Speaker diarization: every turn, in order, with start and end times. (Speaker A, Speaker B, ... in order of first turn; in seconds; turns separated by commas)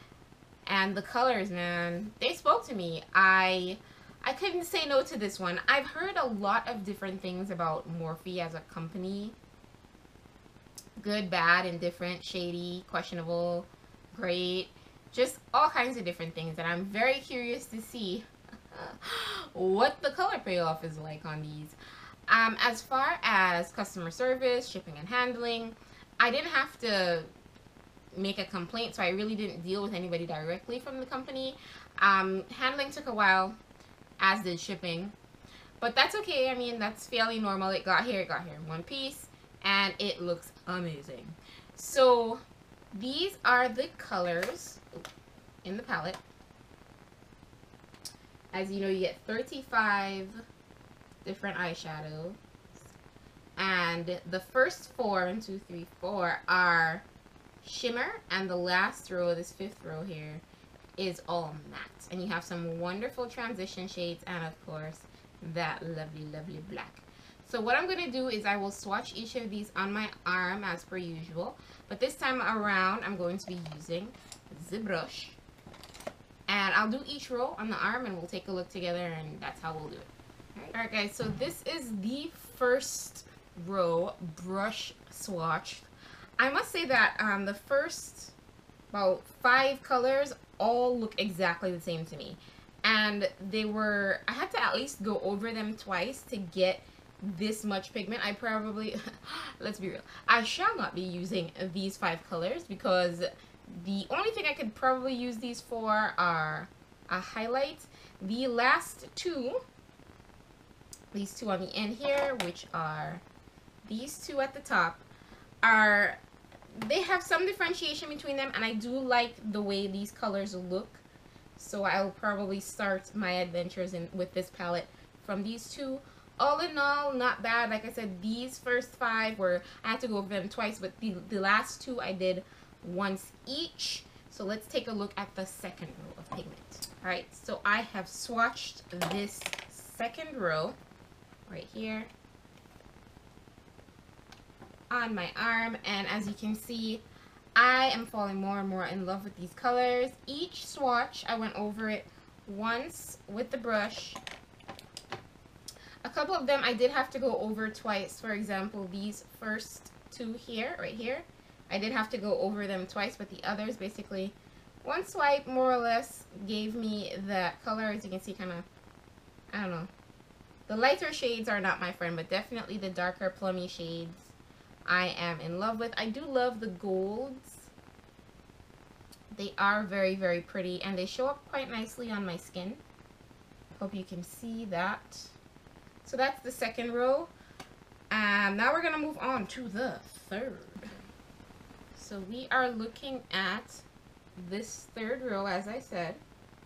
Speaker A: 0.7-9.4, Speaker A: 11.0-21.8, Speaker A: 22.3-27.3, Speaker A: 28.1-33.6, Speaker A: 34.2-35.1, Speaker A: 35.8-42.4, Speaker A: 42.9-44.8, Speaker A: 45.6-46.2, Speaker A: 48.5-50.4, Speaker A: 51.2-52.4, Speaker A: 53.6-57.0, Speaker A: 57.6-60.4, Speaker A: 61.0-75.4, Speaker A: 76.5-85.9, Speaker A: 86.4-88.3, Speaker A: 88.9-109.6, Speaker A: 111.1-113.2, Speaker A: 113.8-115.0, Speaker A: 115.6-116.2, Speaker A: 116.7-121.0, Speaker A: 121.6-140.8, Speaker A: 141.5-142.1, Speaker A: 144.9-147.0, Speaker A: 147.6-154.2, Speaker A: 156.0-168.7, Speaker A: 169.5-169.9, Speaker A: 170.7-174.3, Speaker A: 174.9-177.7, Speaker A: 179.3-182.8, Speaker A: 183.8-185.3, Speaker A: 186.0-187.3, Speaker A: 188.1-191.0, Speaker A: 191.9-193.8, Speaker A: 194.4-196.2